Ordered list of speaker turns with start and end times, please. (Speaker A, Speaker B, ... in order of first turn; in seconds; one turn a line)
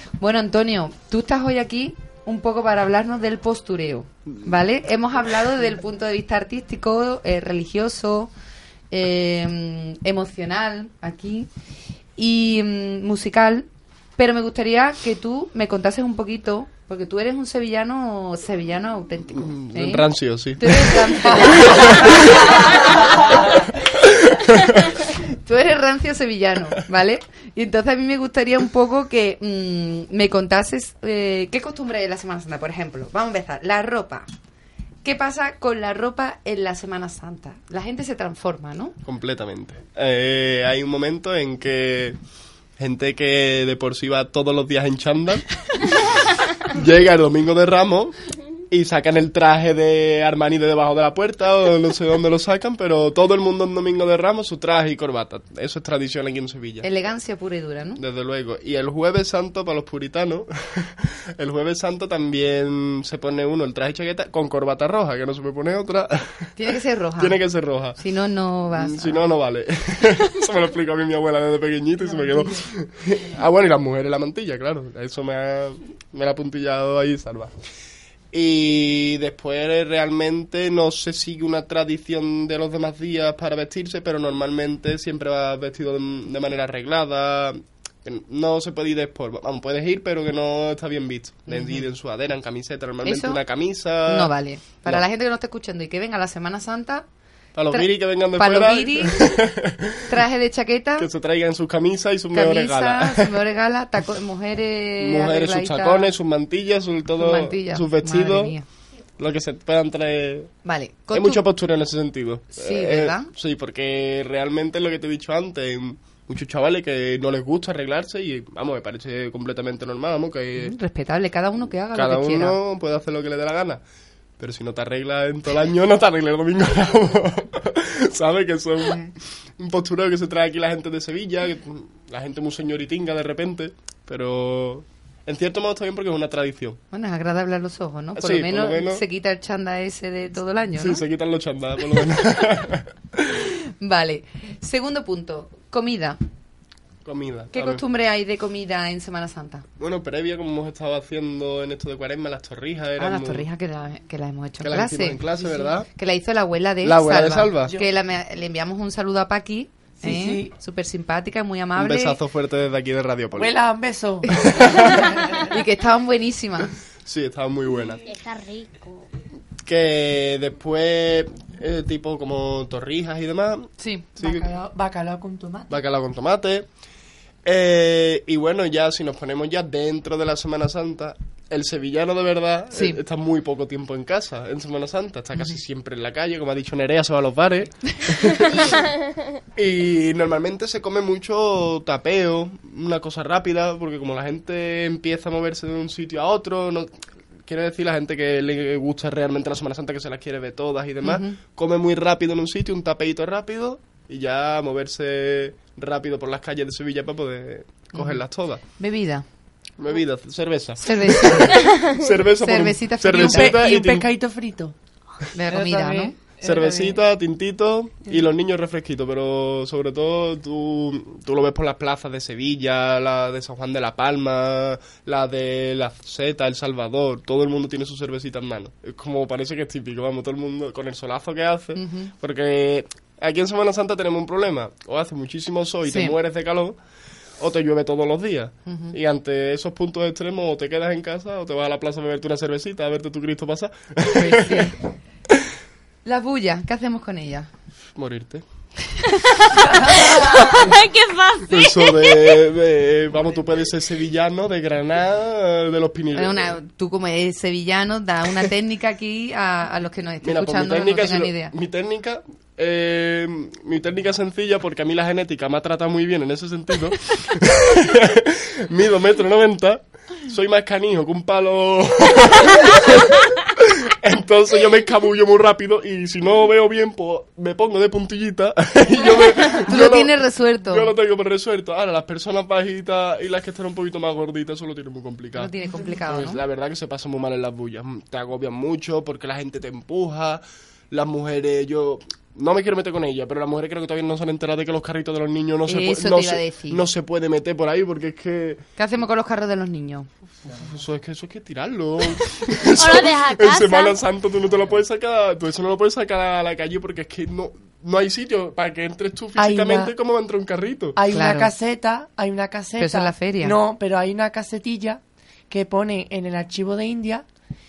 Speaker A: 0.2-8.3
Speaker A: 8.9-11.5
Speaker A: 12.2-22.8
Speaker B: 19.4-25.1
Speaker A: 25.3-34.3
Speaker A: 35.0-39.0
Speaker B: 39.0-42.2
Speaker B: 42.8-45.9
Speaker B: 46.7-48.2
Speaker B: 48.7-56.9
Speaker A: 56.8-58.0
Speaker B: 58.0-66.5
Speaker A: 66.6-67.4
Speaker B: 67.2-68.0
Speaker A: 68.0-69.3
Speaker B: 68.7-77.5
Speaker C: 72.1-72.5
Speaker B: 78.3-95.0
Speaker A: 91.5-91.9
Speaker A: 93.0-93.4
Speaker A: 94.0-97.1
Speaker B: 97.5-100.2
Speaker A: 97.7-99.4
Speaker A: 100.1-101.1
Speaker B: 101.0-103.4
Speaker A: 102.3-106.1
Speaker B: 105.0-108.6
Speaker A: 107.2-108.7
Speaker B: 109.2-110.5
Speaker A: 110.6-111.4
Speaker B: 111.1-120.8
Speaker A: 112.5-113.3
Speaker A: 120.6-122.6
Speaker B: 122.0-123.8
Speaker B: 124.4-136.8
Speaker A: 128.8-129.1
Speaker A: 136.9-141.0
Speaker B: 138.2-139.0
Speaker B: 140.8-143.3
Speaker A: 143.8-146.2
Speaker B: 147.1-147.8
Speaker A: 147.5-149.7
Speaker B: 149.8-153.5
Speaker A: 153.0-162.2
Speaker B: 154.6-155.9
Speaker B: 156.8-157.8
Speaker C: 160.0-160.5
Speaker B: 161.8-163.6
Speaker C: 163.3-165.4
Speaker A: 164.3-166.8
Speaker B: 164.4-165.2
Speaker B: 167.0-168.0
Speaker D: 168.0-169.1
Speaker B: 169.6-174.4
Speaker A: 173.8-174.3
Speaker C: 174.2-175.8
Speaker B: 175.7-176.7
Speaker B: 177.4-188.9
Speaker A: 182.7-183.0
Speaker D: 188.4-189.1
Speaker B: 189.6-196.9
Speaker B: 197.4-208.6
Speaker A: 201.0-201.4
Speaker A: 207.9-209.2
Speaker B: 209.8-214.1
Speaker A: 210.8-211.8
Speaker D: 211.6-212.1
Speaker A: 212.4-213.7
Speaker C: 213.1-214.8
Speaker A: 215.3-216.2
Speaker C: 215.5-217.0
Speaker B: 216.4-236.8
Speaker A: 231.8-232.1
Speaker A: 235.8-236.2
Speaker B: 237.4-244.7
Speaker A: 238.7-239.0
Speaker A: 244.1-244.8
Speaker A: 246.1-247.5
Speaker B: 247.9-248.4
Speaker D: 249.3-252.4
Speaker A: 249.6-250.0
Speaker B: 250.4-250.7
Speaker B: 251.5-256.5
Speaker A: 256.1-261.5
Speaker B: 260.2-285.5
Speaker A: 279.5-280.9
Speaker A: 285.4-286.4
Speaker B: 286.0-298.6
Speaker A: 295.7-296.9
Speaker A: 298.8-300.1
Speaker B: 300.5-311.0
Speaker D: 302.7-304.0
Speaker C: 309.4-309.9
Speaker C: 311.0-317.3
Speaker A: 311.1-311.5
Speaker A: 312.8-313.6